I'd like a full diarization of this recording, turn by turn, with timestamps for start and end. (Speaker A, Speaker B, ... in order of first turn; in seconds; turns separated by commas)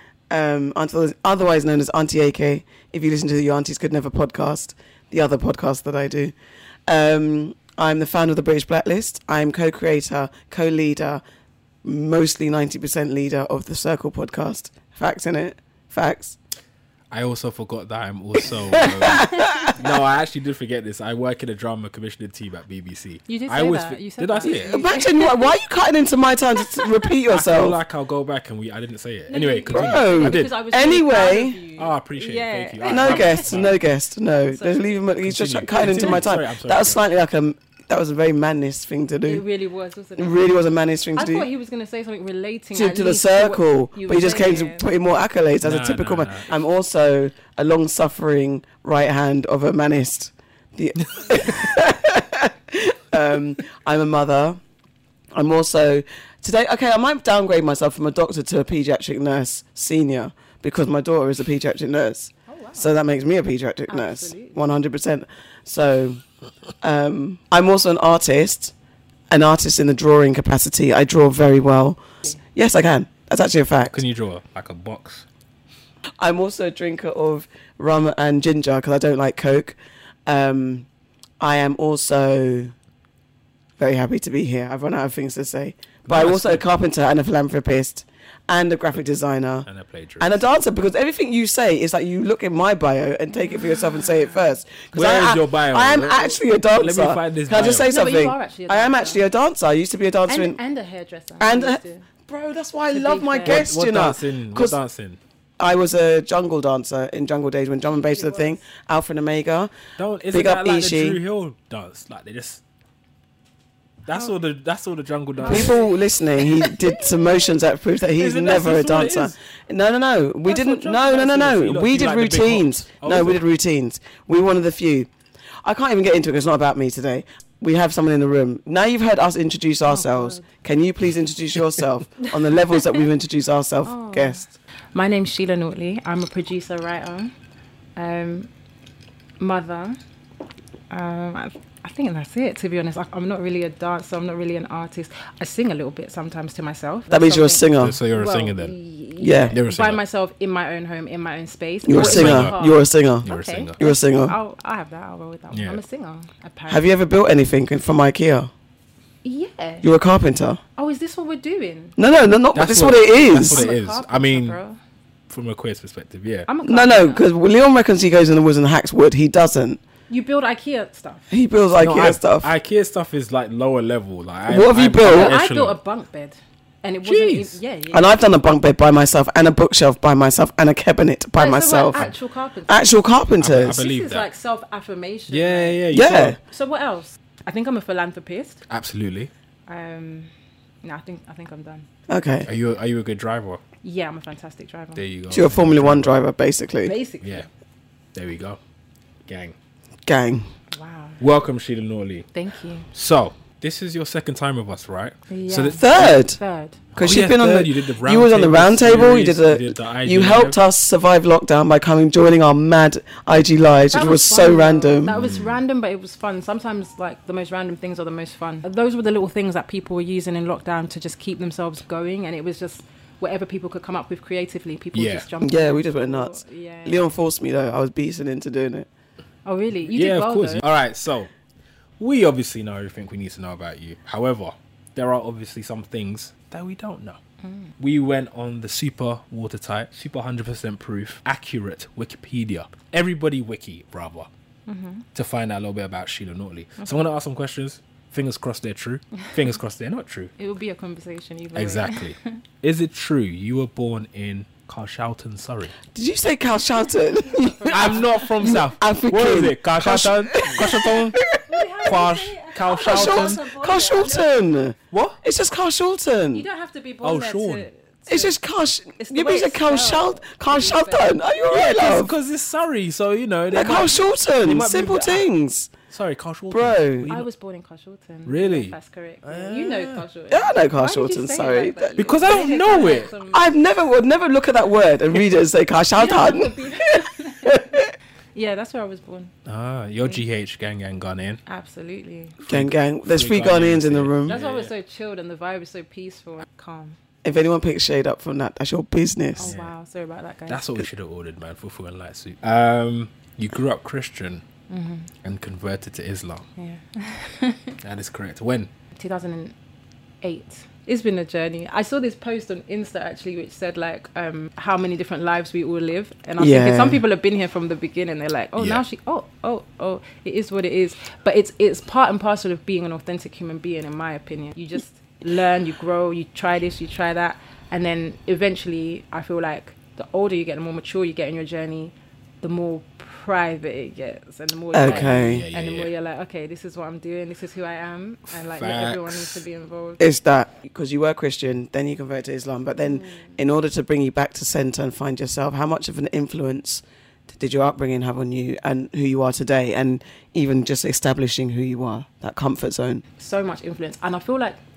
Speaker A: 0.3-6.3, Speaker A: 6.9-11.2, Speaker A: 11.8-16.4, Speaker B: 17.1-24.8, Speaker A: 18.7-19.8, Speaker C: 19.1-19.7, Speaker C: 23.3-25.6, Speaker A: 24.4-27.8, Speaker B: 27.3-30.6, Speaker C: 29.3-33.6, Speaker A: 29.7-31.6, Speaker B: 31.8-33.8, Speaker A: 32.9-39.4, Speaker C: 34.5-35.0, Speaker B: 35.2-37.0, Speaker C: 39.2-40.5, Speaker A: 40.2-41.5, Speaker C: 41.2-44.9, Speaker A: 42.8-54.6, Speaker B: 45.6-46.5, Speaker A: 55.4-66.2, Speaker C: 62.5-62.9, Speaker C: 63.9-64.7, Speaker A: 66.8-68.7, Speaker A: 69.3-74.0, Speaker B: 73.9-75.2, Speaker A: 76.2-80.9, Speaker A: 81.4-82.7, Speaker A: 83.8-89.7, Speaker B: 86.1-86.6, Speaker B: 89.7-90.4, Speaker A: 90.2-100.6, Speaker C: 93.4-94.4, Speaker B: 94.9-97.9, Speaker C: 97.7-99.3, Speaker C: 100.3-102.1, Speaker A: 101.4-104.8, Speaker C: 102.9-103.7, Speaker B: 103.5-105.2, Speaker A: 105.6-109.7, Speaker C: 107.8-108.6, Speaker B: 110.0-112.6, Speaker A: 110.3-111.2, Speaker B: 114.1-115.8, Speaker C: 115.4-117.5, Speaker A: 115.5-125.1, Speaker B: 118.2-119.3, Speaker B: 120.5-123.4, Speaker A: 125.6-134.6, Speaker C: 129.9-130.5, Speaker C: 133.8-137.3, Speaker C: 138.0-138.5, Speaker C: 139.4-140.0, Speaker C: 140.9-156.9, Speaker A: 147.1-148.0, Speaker B: 147.8-148.8, Speaker A: 149.2-149.6, Speaker B: 149.5-150.0, Speaker A: 151.8-153.3, Speaker B: 151.9-152.6, Speaker B: 153.2-153.8, Speaker A: 153.8-154.4, Speaker B: 155.5-155.8, Speaker A: 156.7-158.5, Speaker C: 159.2-159.9, Speaker A: 159.8-160.6, Speaker C: 160.8-162.0, Speaker A: 162.0-163.7, Speaker B: 162.6-164.6, Speaker C: 163.5-164.8, Speaker B: 165.3-166.5, Speaker C: 166.5-167.3, Speaker A: 166.6-169.8, Speaker C: 170.1-171.3, Speaker A: 171.3-172.5, Speaker B: 171.8-175.8, Speaker A: 174.5-175.3, Speaker C: 175.0-178.2, Speaker B: 177.0-177.6, Speaker A: 177.9-182.1, Speaker C: 181.3-182.9, Speaker A: 182.7-183.9, Speaker B: 183.4-184.3, Speaker C: 183.7-185.8, Speaker B: 185.3-186.4, Speaker A: 185.9-186.4, Speaker C: 186.4-188.6, Speaker B: 188.7-189.3, Speaker C: 189.7-190.3, Speaker C: 190.8-191.9, Speaker A: 192.1-192.5, Speaker B: 192.4-193.6, Speaker C: 193.8-195.0, Speaker B: 195.0-196.2, Speaker A: 195.3-196.9, Speaker C: 196.8-197.5, Speaker B: 198.1-198.6, Speaker B: 199.3-199.6, Speaker A: 200.1-200.5, Speaker C: 200.7-201.2, Speaker B: 201.2-202.3, Speaker C: 202.3-202.9, Speaker B: 202.9-206.3, Speaker C: 205.3-206.8, Speaker A: 205.8-206.4, Speaker A: 206.9-215.2, Speaker B: 207.0-210.6, Speaker C: 213.9-227.1, Speaker B: 215.1-215.6, Speaker B: 224.9-225.3, Speaker A: 225.4-228.9, Speaker C: 229.4-230.6, Speaker B: 229.9-231.3, Speaker B: 232.0-237.2, Speaker C: 237.4-237.7, Speaker B: 237.8-244.3, Speaker C: 244.7-245.1, Speaker B: 245.2-250.3, Speaker C: 250.4-252.4, Speaker B: 251.6-255.8, Speaker A: 255.9-261.4, Speaker C: 257.2-258.5, Speaker B: 257.7-261.2, Speaker C: 261.5-264.4, Speaker B: 261.8-263.4, Speaker A: 262.8-266.4, Speaker B: 264.9-265.2, Speaker C: 266.3-268.4, Speaker B: 267.0-267.7, Speaker A: 268.1-272.1, Speaker C: 269.0-271.2, Speaker B: 271.5-275.3, Speaker A: 273.5-275.7, Speaker B: 275.9-277.3, Speaker A: 276.5-277.1, Speaker C: 277.1-283.5, Speaker B: 278.3-280.0, Speaker A: 280.3-282.0, Speaker B: 282.0-283.1, Speaker A: 283.3-287.9, Speaker C: 285.9-287.8, Speaker C: 288.4-289.3, Speaker B: 289.5-291.4, Speaker C: 291.5-292.4, Speaker A: 292.4-294.4, Speaker B: 292.5-294.7, Speaker C: 294.3-297.0, Speaker A: 297.2-299.5, Speaker C: 299.4-300.6, Speaker B: 299.4-299.7, Speaker B: 300.5-304.4, Speaker C: 304.7-305.1, Speaker B: 305.2-306.5, Speaker C: 306.6-307.8, Speaker B: 307.8-308.7, Speaker C: 308.9-309.6, Speaker C: 310.2-340.0, Speaker A: 316.4-317.0, Speaker B: 318.6-318.8, Speaker A: 334.7-335.4, Speaker B: 334.8-335.9, Speaker B: 338.5-339.4, Speaker A: 340.0-353.0, Speaker C: 342.9-343.4, Speaker C: 353.2-354.6